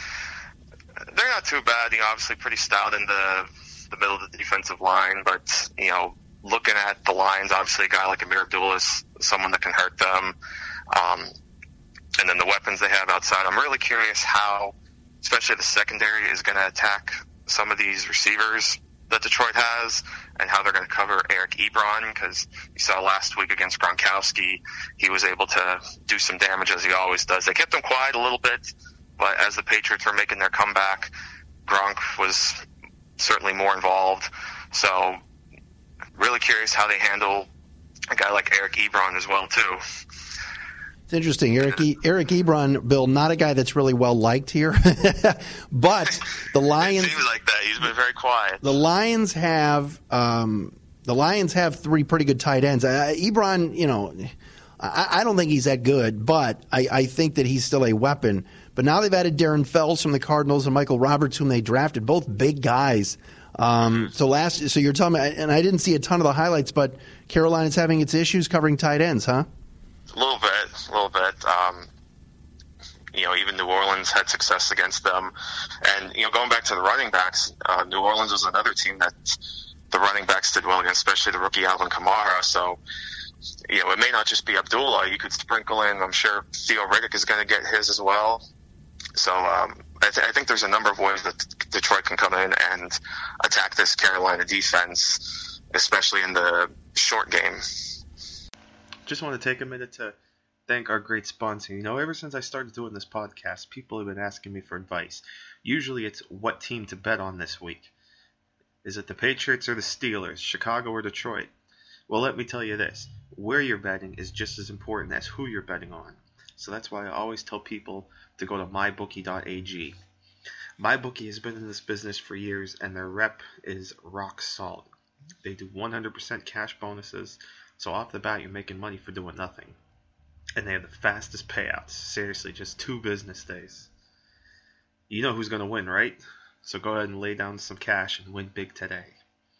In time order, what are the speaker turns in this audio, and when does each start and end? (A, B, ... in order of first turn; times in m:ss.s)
0:01.1-0:10.3 A
0:10.9-0:11.3 A
0:12.2-0:31.1 A
0:31.7-0:32.6 A
0:33.2-0:35.2 A
0:36.2-0:37.5 A
0:38.1-0:39.8 A
0:41.1-0:47.2 B
0:46.8-0:48.6 A
0:48.6-1:09.4 B
1:10.1-1:11.9 A
1:13.1-1:15.3 A
1:15.8-1:19.4 A
1:19.9-1:22.8 A
1:23.7-1:28.4 A
1:29.2-1:37.6 A
1:39.0-1:47.9 C
1:48.8-1:51.5 C
1:52.1-2:00.0 C
2:00.8-2:04.9 C
2:05.4-2:09.8 C
2:10.6-2:13.9 C
2:15.1-2:19.2 C